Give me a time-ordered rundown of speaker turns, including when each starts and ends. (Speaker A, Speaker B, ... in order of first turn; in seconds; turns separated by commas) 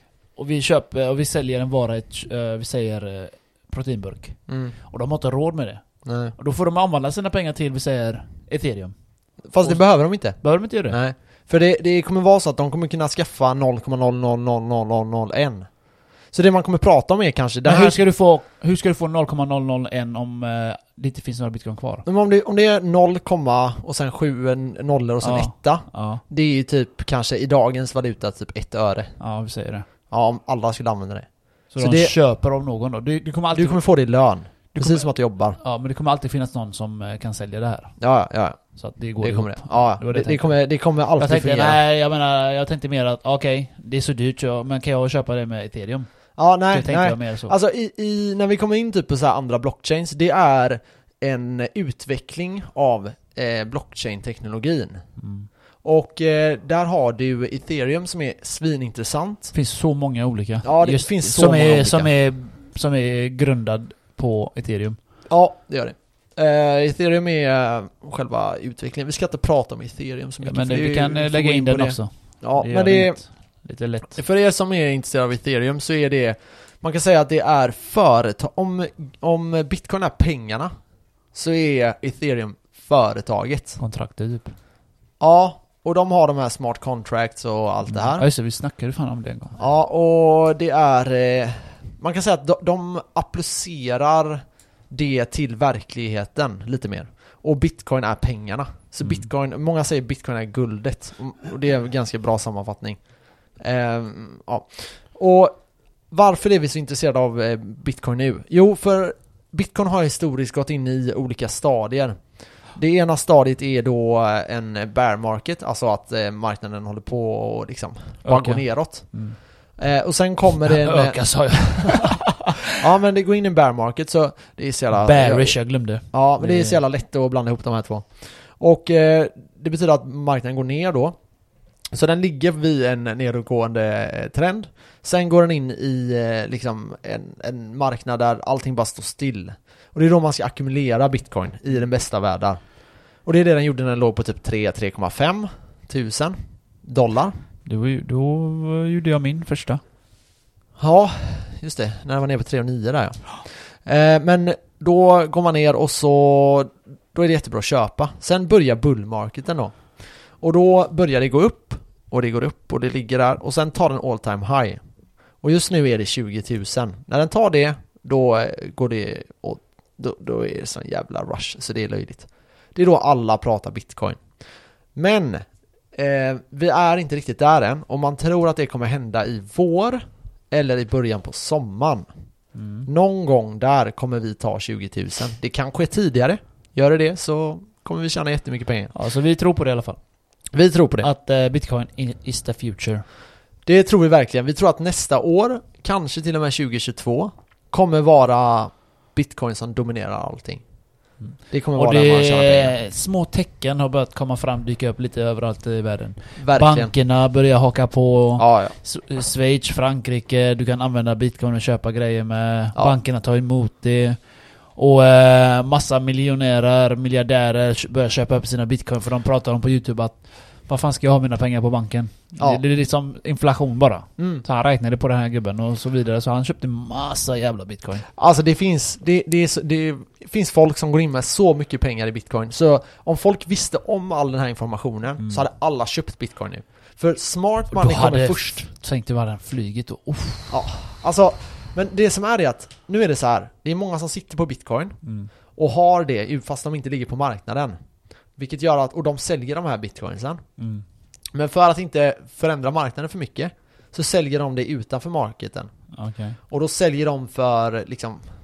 Speaker A: 0.3-8.9, Speaker B: 4.5-4.7, Speaker B: 6.0-6.3, Speaker B: 9.5-15.7, Speaker A: 10.3-11.0, Speaker B: 16.3-18.0, Speaker A: 17.6-22.0, Speaker B: 22.1-29.1, Speaker A: 25.2-26.2, Speaker A: 29.2-29.9, Speaker B: 30.1-32.1, Speaker A: 31.7-33.8, Speaker B: 33.5-35.6, Speaker A: 34.7-37.9, Speaker B: 38.0-38.6, Speaker A: 38.8-40.6, Speaker B: 39.2-41.8, Speaker A: 41.2-46.1, Speaker B: 46.4-55.0, Speaker A: 46.7-47.5, Speaker A: 55.2-55.5, Speaker B: 55.8-59.5, Speaker A: 59.5-65.0, Speaker B: 60.6-62.1, Speaker B: 65.3-73.2, Speaker A: 70.4-74.2, Speaker B: 74.1-80.7, Speaker B: 81.3-83.8, Speaker A: 83.8-84.5, Speaker B: 85.2-88.2, Speaker A: 87.9-89.6, Speaker B: 89.6-103.0, Speaker B: 103.6-105.6, Speaker B: 106.1-119.2, Speaker A: 118.2-119.4, Speaker B: 119.8-125.6, Speaker A: 120.6-122.7, Speaker A: 124.9-126.8, Speaker B: 126.1-131.1, Speaker B: 131.9-142.6, Speaker B: 143.2-147.3, Speaker A: 147.6-149.8, Speaker B: 150.8-164.8, Speaker B: 165.4-174.2, Speaker B: 174.9-182.1, Speaker A: 182.5-182.9, Speaker B: 182.8-188.9, Speaker A: 188.9-190.0, Speaker B: 190.5-191.1, Speaker A: 191.0-193.0, Speaker B: 193.7-200.6, Speaker A: 201.2-214.2, Speaker B: 201.5-202.8, Speaker B: 206.4-206.9, Speaker B: 208.4-208.8, Speaker A: 214.7-228.1, Speaker B: 224.2-224.4, Speaker B: 228.1-238.7, Speaker A: 235.2-235.4, Speaker A: 237.7-240.6, Speaker B: 240.5-245.0, Speaker A: 245.0-245.3, Speaker B: 245.5-247.8, Speaker B: 248.3-250.4, Speaker A: 250.6-250.8, Speaker B: 251.3-255.7, Speaker A: 255.9-256.4, Speaker B: 256.5-258.3